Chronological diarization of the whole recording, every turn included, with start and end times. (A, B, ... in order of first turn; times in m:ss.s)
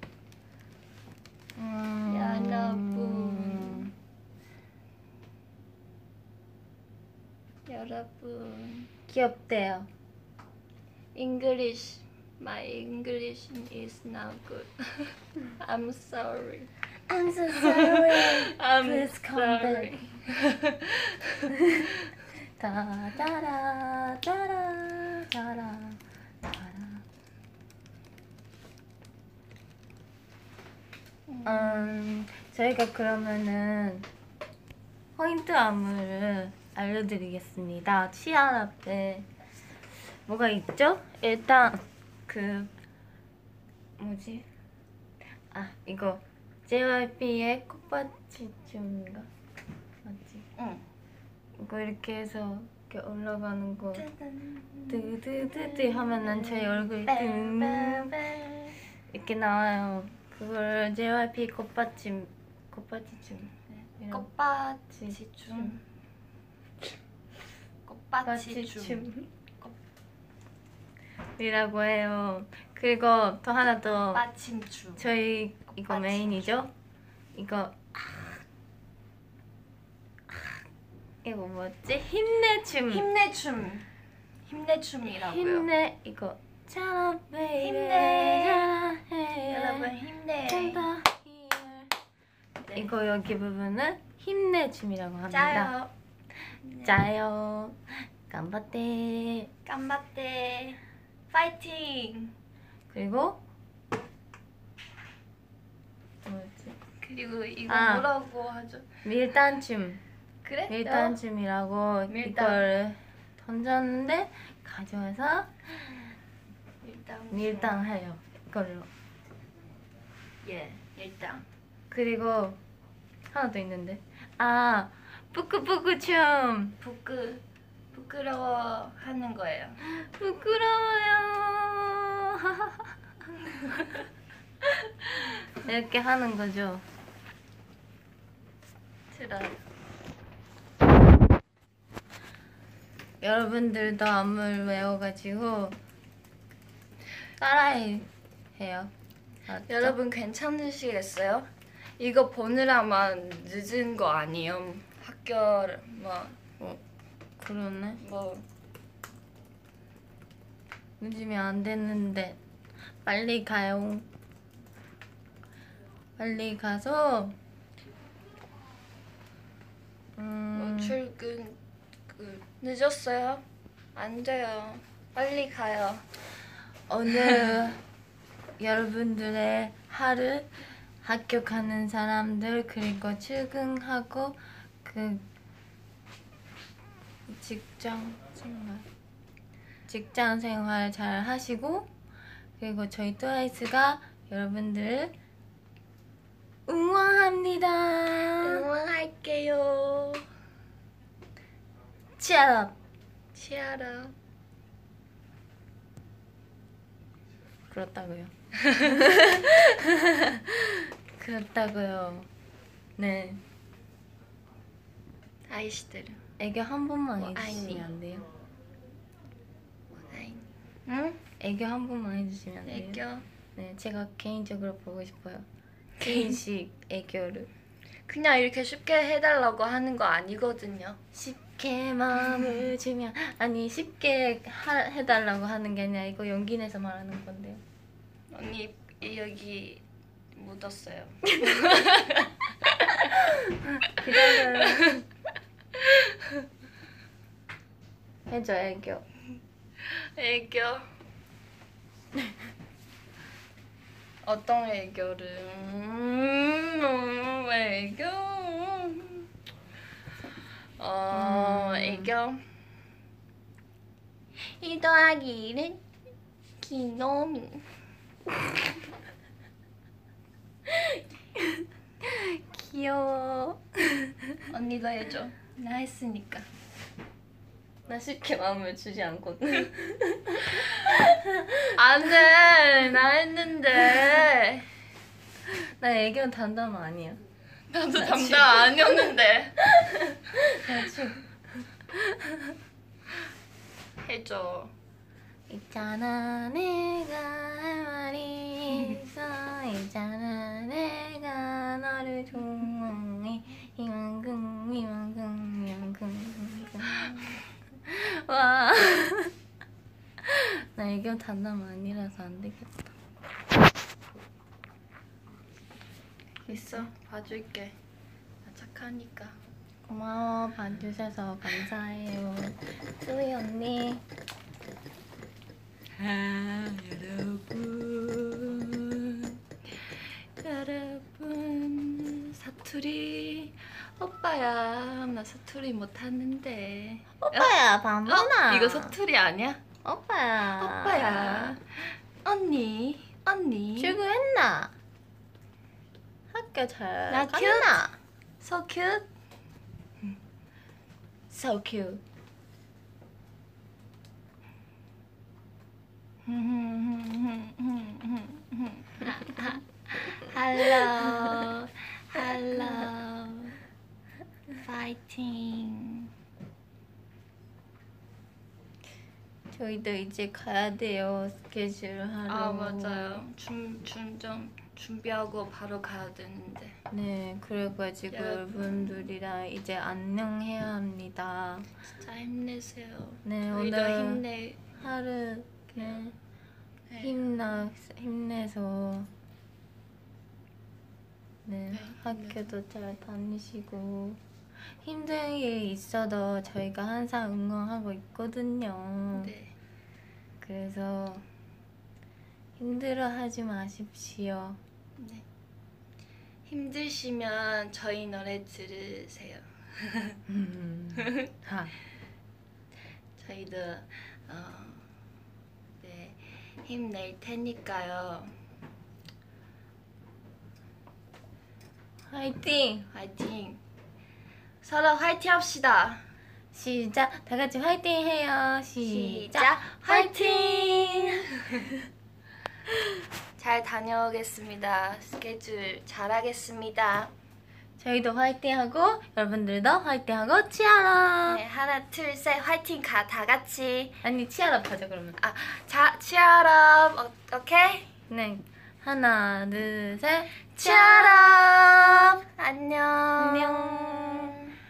0:01.6-0:03.9 A
0:02.1-0:03.9 B
0:07.7-0:08.9 B
0:09.1-0:09.9 A
0:11.2-0:16.7 B
0:17.1-0:20.2 A
0:17.6-0:21.5 B
0:21.5-0:21.9 A
0:22.6-0:27.0 A
0:31.3-0:31.9 B
0:31.4-0:34.1 A
0:35.2-0:39.3 A
0:40.3-0:42.7 A
0:44.0-0:44.5 A
0:45.5-0:49.3 A
0:50.0-0:50.5 A
0:50.6-0:50.8 B
0:51.6-0:54.0 A
0:54.0-0:58.8 B
0:54.9-0:58.2 A
0:59.1-1:04.3 A
1:03.7-1:05.8 B
1:04.9-1:05.7 A
1:07.9-1:09.1 B
1:08.2-1:09.3 A
1:11.4-1:14.2 A
1:14.1-1:15.0 B
1:15.0-1:16.7 A
1:15.9-1:16.6 B
1:17.3-1:18.4 A
1:21.2-1:23.0 A
1:22.9-1:23.9 B
1:24.5-1:25.7 B
1:25.1-1:29.9 A
1:27.6-1:28.7 B
1:29.5-1:30.8 B
1:30.5-1:31.9 A
1:32.6-1:32.9 B
1:32.7-1:35.7 A
1:35.3-1:35.9 B
1:36.6-1:37.0 B
1:36.8-1:39.5 A
1:39.7-1:40.8 B
1:41.3-1:42.3 B
1:42.9-1:43.4 A
1:46.2-1:46.8 A
1:47.0-1:48.9 B
1:47.7-1:48.1 A
1:49.0-1:50.0 A
1:50.4-1:51.2 B
1:50.7-1:55.5 A
1:52.1-1:52.7 B
1:56.8-1:57.8 B
1:57.3-1:58.9 A
2:00.4-2:01.4 B
2:01.9-2:02.6 A
2:03.3-2:06.8 A
2:06.8-2:07.4 B
2:07.9-2:09.8 B
2:09.9-2:12.9 A
2:15.6-2:16.8 A
2:19.1-2:19.6 B
2:23.2-2:25.8 A
2:27.4-2:28.9 A
2:29.5-2:30.0 A
2:29.7-2:31.5 B
2:32.0-2:36.4 B
2:37.4-2:38.0 A
2:38.0-2:38.4 B
2:41.0-2:42.4 A
2:43.0-2:44.1 A
2:46.2-2:47.4 A
2:50.2-2:51.0 A
2:50.5-2:51.6 B
2:52.1-2:53.4 B
2:54.0-2:56.0 B
2:56.9-2:57.8 A
2:58.6-3:00.5 A
3:01.0-3:05.2 A
3:07.3-3:08.9 A
3:09.9-3:11.9 A
3:12.6-3:15.1 A
3:16.7-3:18.7 A
3:18.4-3:20.2 B
3:22.2-3:22.7 A
3:23.4-3:24.1 B
3:27.7-3:32.3 A
3:28.6-3:28.9 B
3:33.0-3:33.4 A
3:35.5-3:36.2 B
3:36.4-3:38.3 A
3:37.2-3:37.9 B
3:39.9-3:41.2 B
3:41.4-3:43.0 A
3:42.7-3:43.3 B
3:43.6-3:45.4 A
3:46.0-3:46.4 B
3:46.0-3:47.5 A
3:48.1-3:51.0 B
3:51.1-3:57.6 A
3:58.3-3:59.8 B
4:00.4-4:02.3 B
4:03.3-4:05.0 A
4:04.3-4:05.0 B
4:05.8-4:06.1 B
4:08.3-4:09.0 A
4:10.2-4:10.8 B
4:14.2-4:19.3 B
4:20.8-4:22.4 B
4:21.1-4:22.1 A
4:24.5-4:25.8 B
4:26.6-4:27.6 B
4:30.7-4:34.3 A
4:34.5-4:36.5 B
4:37.9-4:41.8 A
4:41.8-4:44.7 B
4:45.5-4:47.2 A
4:47.7-4:49.7 B
4:47.9-4:48.8 A
4:49.8-4:51.3 A
4:54.0-4:54.7 B
4:55.5-5:07.2 A
5:07.9-5:09.3 A
5:10.2-5:12.8 A
5:16.5-5:16.9 A
5:16.5-5:17.8 B
5:18.4-5:19.4 B
5:19.9-5:24.0 A
5:26.0-5:39.6 B
5:37.2-5:39.0 A
5:39.8-5:41.6 A
5:40.5-5:44.0 B
5:43.8-5:44.7 A
5:46.3-5:48.0 A
5:47.1-5:47.9 B
5:48.4-5:49.1 B
5:51.3-5:52.0 A
5:56.3-6:03.6 B
6:04.6-6:06.1 B
6:09.5-6:13.2 A
6:12.3-6:16.8 B
6:16.9-6:21.7 A
6:18.1-6:19.1 B
6:22.0-6:24.7 B
6:23.2-6:24.2 A
6:24.8-6:26.1 A
6:26.9-6:27.2 B
6:27.0-6:29.1 A
6:31.4-6:34.2 A
6:31.7-6:32.5 B
6:34.8-6:39.3 A
6:39.2-6:39.5 B
6:40.4-6:41.2 A
6:42.6-6:44.6 A
6:45.0-6:45.2 B
6:46.5-6:50.2 B
6:50.3-6:51.7 A
6:53.2-6:54.8 B
6:55.8-6:58.3 B
7:02.1-7:02.9 A
7:02.9-7:03.6 B
7:04.6-7:06.0 B
7:06.5-7:11.1 A
7:08.8-7:11.7 B
7:13.4-7:17.1 B
7:17.8-7:21.4 A
7:21.3-7:23.9 B
7:24.0-7:25.2 A
7:25.2-7:27.9 B
7:28.1-7:31.7 A
7:30.6-7:34.5 B
7:33.2-7:34.4 A